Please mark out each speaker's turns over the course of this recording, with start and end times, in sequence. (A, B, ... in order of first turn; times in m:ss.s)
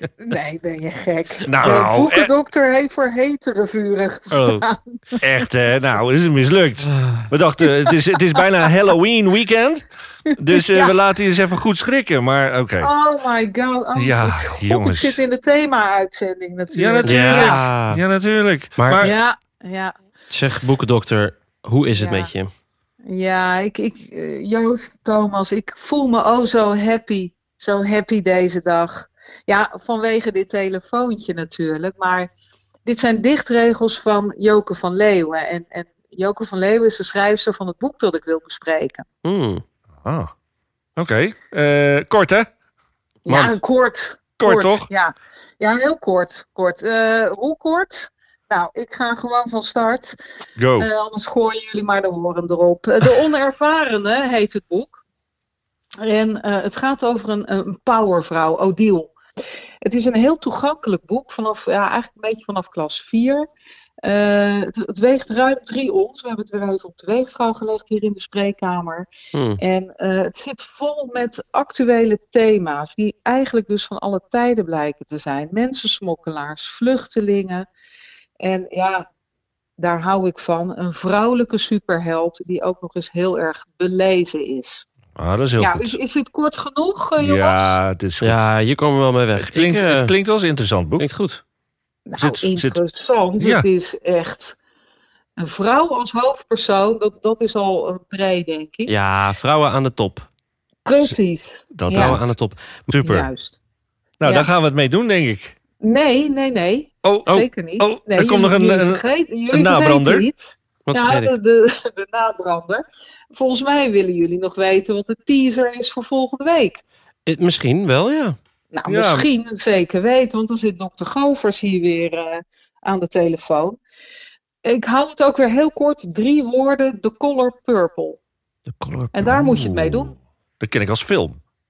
0:00.2-0:05.2 A
0:01.4-0:02.3 B
0:04.3-0:04.6 C
0:05.2-0:12.9 B
0:10.5-0:10.9 A
0:12.8-0:17.6 A
0:13.9-0:15.2 B
0:16.7-0:19.1 B
0:17.0-0:18.0 C
0:18.8-0:19.1 C
0:19.0-0:19.9 A
0:20.3-0:22.5 C
0:22.0-0:22.3 A
0:23.1-0:32.3 A
0:32.8-0:39.0 A
0:39.2-0:39.6 C
0:40.0-0:40.3 B
0:41.0-0:42.5 B
0:43.2-0:50.2 A
0:43.3-0:43.6 C
0:44.4-0:44.9 B
0:50.6-0:50.9 B
0:50.8-0:55.0 A
0:56.0-0:59.1 A
0:59.8-1:03.5 A
1:04.0-1:09.1 A
1:09.3-1:09.6 C
1:09.6-1:17.7 A
1:18.4-1:19.1 A
1:19.8-1:24.8 A
1:25.2-1:26.0 B
1:25.6-1:27.8 A
1:27.2-1:28.5 B
1:28.2-1:30.1 C
1:29.4-1:31.0 B
1:31.0-1:31.4 C
1:32.1-1:34.6 A
1:32.2-1:32.8 B
1:33.4-1:33.7 B
1:35.4-1:38.9 A
1:38.8-1:40.3 C
1:40.8-1:42.2 A
1:41.7-1:42.4 B
1:41.9-1:42.6 C
1:42.9-1:43.3 B
1:43.0-1:43.6 A
1:44.2-1:45.6 B
1:44.2-1:44.5 A
1:45.8-1:56.8 A
1:47.0-1:50.3 B
1:50.8-1:51.3 C
1:57.3-1:58.4 C
1:58.7-2:03.8 A
1:58.9-1:59.3 B
2:04.6-2:08.2 A
2:08.7-2:09.5 C
2:09.1-2:10.1 A
2:09.6-2:10.1 B
2:10.6-2:11.4 B